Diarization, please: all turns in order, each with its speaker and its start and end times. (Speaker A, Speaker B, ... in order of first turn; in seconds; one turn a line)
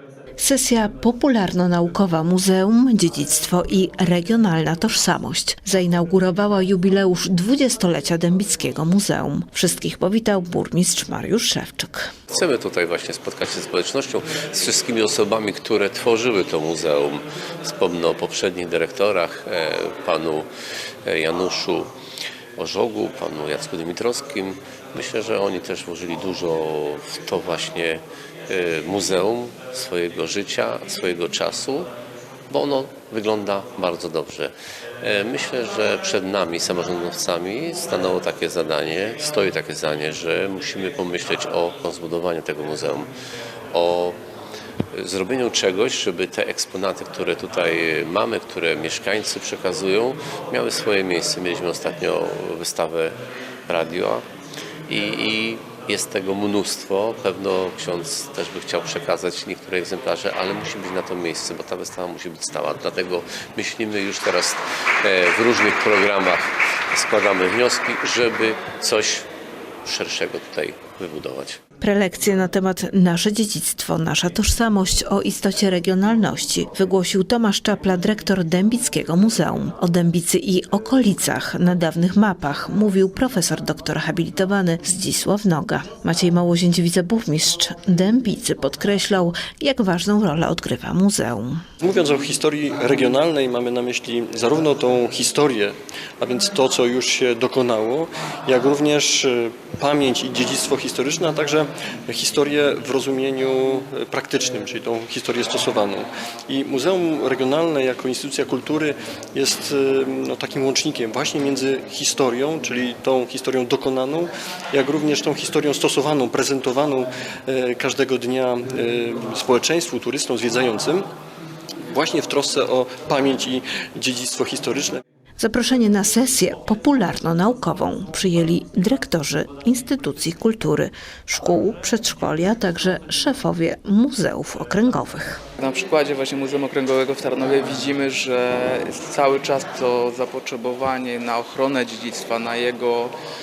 Speaker A: 0.4-12.1
Speaker B: 12.3-20.5
Speaker B: 21.1-21.9
Speaker B: 22.6-31.9
Speaker B: 32.5-43.1
Speaker B: 43.7-44.2
Speaker B: 44.9-54.3
Speaker B: 54.9-69.3
Speaker B: 69.8-71.6
Speaker A: 71.8-91.6
Speaker C: 91.8-121.0
Speaker C: 121.9-125.0
Speaker A: 125.4-135.4
Speaker D: 135.6-143.1